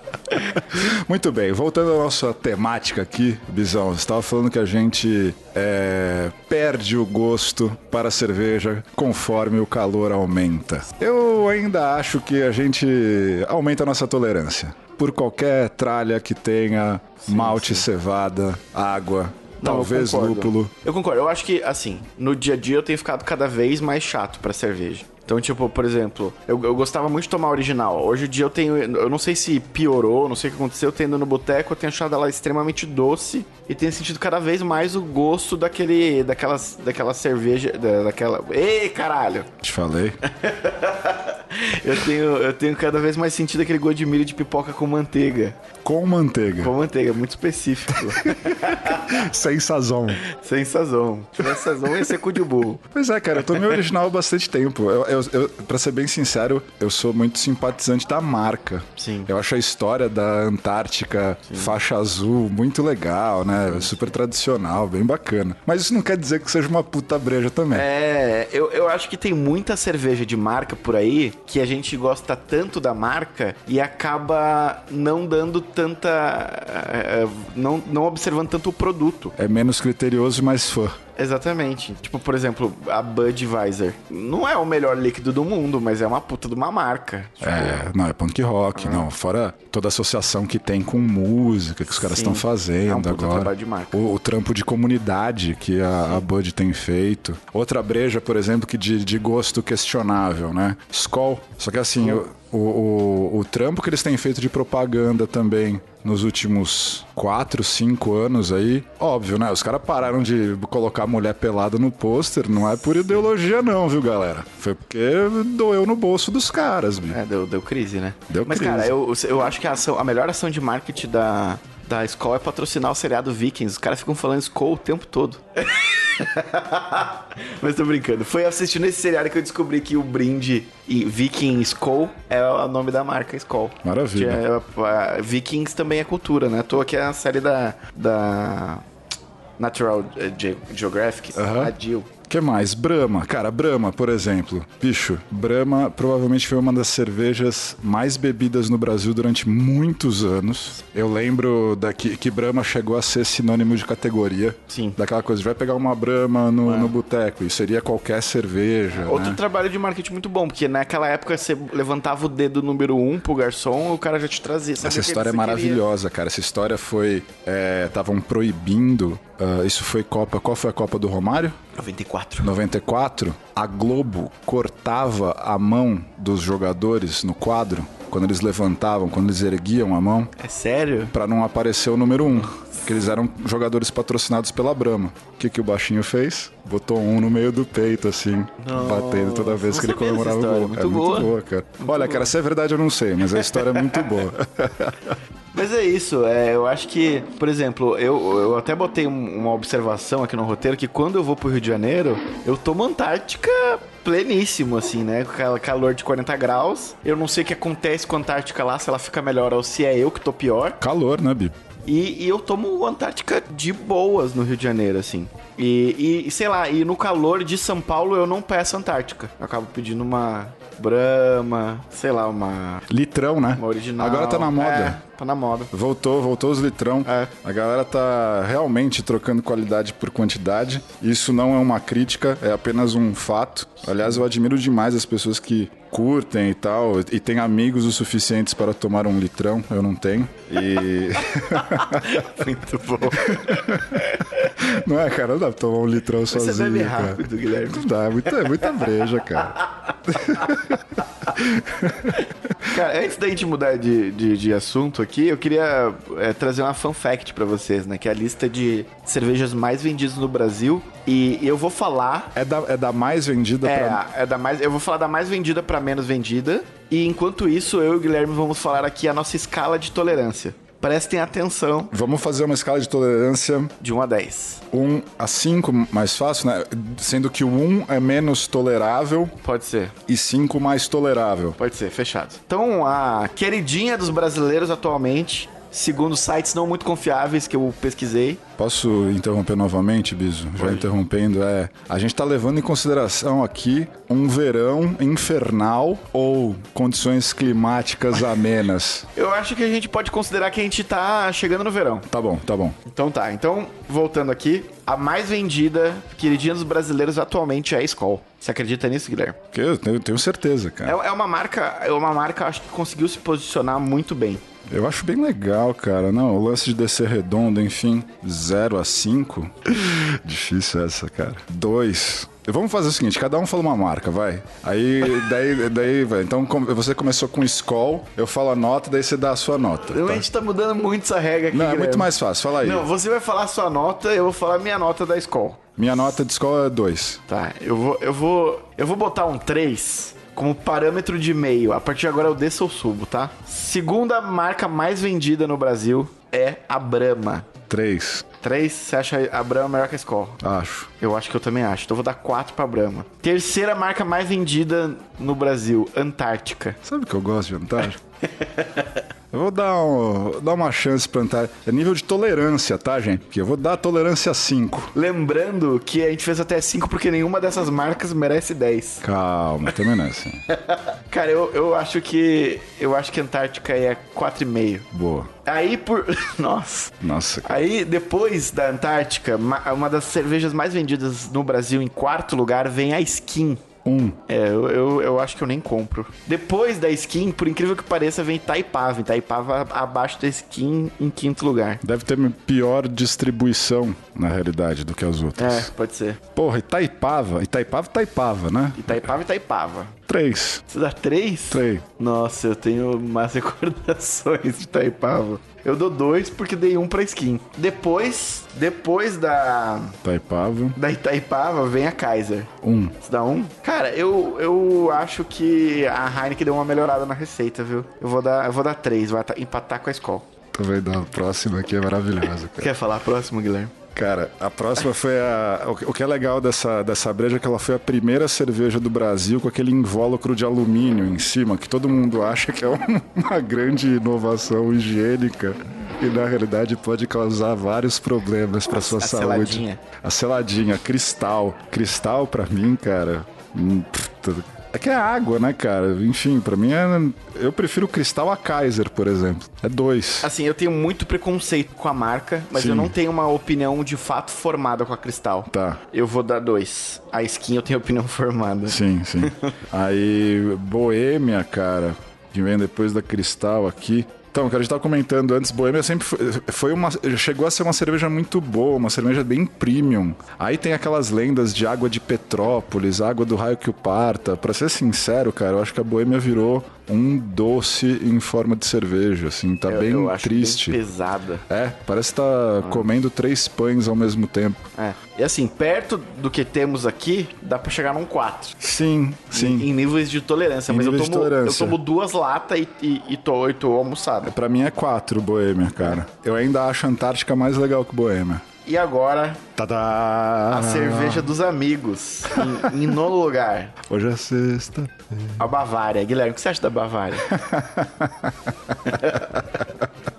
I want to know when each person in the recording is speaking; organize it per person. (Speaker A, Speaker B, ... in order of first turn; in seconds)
Speaker A: 0.6-20.7, 39.6-40.2, 45.8-46.7, 48.0-50.2, 51.6-52.1, 52.9-67.9, 79.3-81.0, 87.4-117.2, 118.3-118.9, 133.8-134.4, 141.3-141.7, 142.3-159.4, 164.8-171.6, 172.4-180.3, 181.1-195.2, 210.8-211.5, 222.9-225.0, 225.7-242.2, 243.2-252.2, 262.4-264.0, 271.9-273.7, 274.7-279.3, 280.1-281.6, 288.6-299.1, 302.1-302.8, 309.5-311.0, 314.7-330.2, 331.5-332.9, 335.8-337.2, 347.7-348.3, 350.4-350.9, 356.8-358.0, 359.3-364.9, 369.0-370.4, 374.9-375.3, 377.0-377.5, 383.8-384.2, 391.8-395.7, 396.4-399.0, 400.1-400.6, 401.5-401.8, 410.0-410.8, 412.6-412.9, 420.5-422.7, 423.9-450.3, 452.5-452.9, 455.5-455.8, 458.6-480.8, 481.5-484.7, 488.6-489.7, 490.7-491.8, 494.2-498.4, 499.6-501.3, 502.3-502.7, 503.8-505.4, 507.3-509.8
Speaker B: 17.2-17.9, 19.6-39.5, 40.2-45.6, 46.6-49.1, 50.3-52.8, 59.0-59.3, 61.5-61.8, 67.7-79.3, 81.2-87.9, 88.8-89.1, 91.9-94.0, 117.1-138.8, 139.6-142.1, 154.7-155.0, 156.6-156.9, 158.9-165.8, 171.7-172.5, 180.4-181.1, 188.6-192.3, 193.3-194.1, 195.5-210.8, 211.8-222.8, 223.6-225.7, 227.0-227.3, 241.2-244.4, 246.3-248.7, 252.6-262.4, 263.6-271.9, 273.8-274.6, 279.4-279.9, 281.6-288.4, 290.6-290.8, 299.1-302.1, 302.8-309.4, 310.8-314.4, 329.9-335.8, 337.3-347.5, 348.4-350.4, 351.0-356.8, 358.3-358.9, 364.9-369.0, 370.5-374.9, 375.4-383.6, 384.3-391.8, 395.4-396.2, 398.8-400.0, 400.7-410.0, 410.8-420.3, 422.6-423.7, 438.7-439.8, 450.2-459.5, 479.7-481.4, 484.8-488.6, 489.3-494.3, 498.6-499.4, 500.5-503.7, 505.4-507.3, 508.9-509.2